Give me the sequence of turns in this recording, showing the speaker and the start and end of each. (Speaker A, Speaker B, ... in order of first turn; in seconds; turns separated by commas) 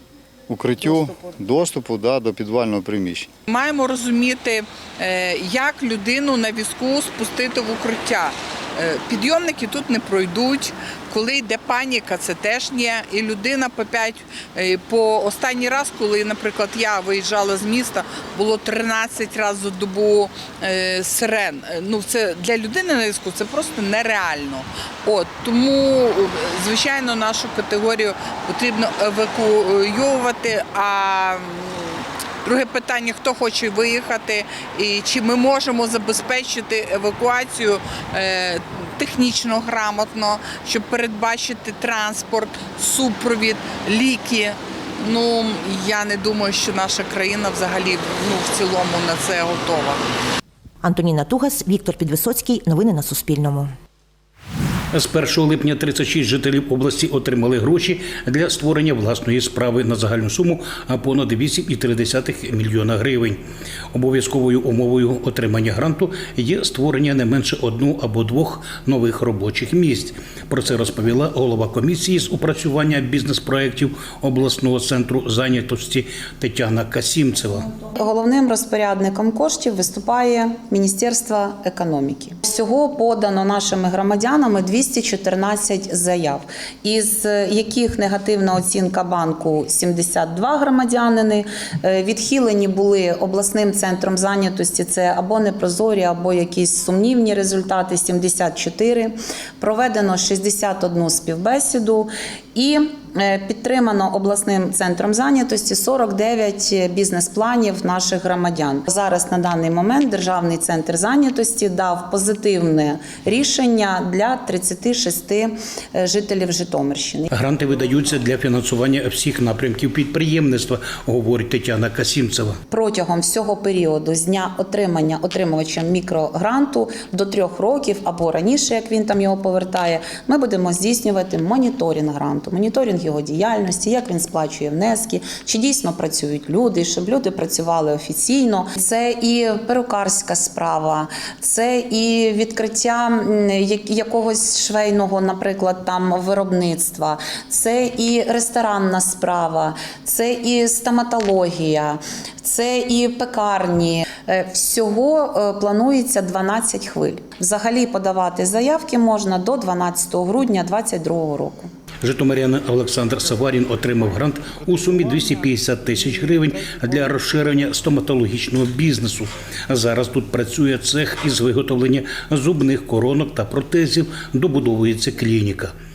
Speaker A: 0.5-3.3, Speaker B: 3.5-50.0, Speaker C: 50.8-53.7, Speaker D: 54.9-63.4, Speaker D: 63.9-77.7, Speaker E: 78.0-117.3, Speaker D: 117.3-122.6, Speaker E: 122.7-161.7, Speaker D: 162.0-175.7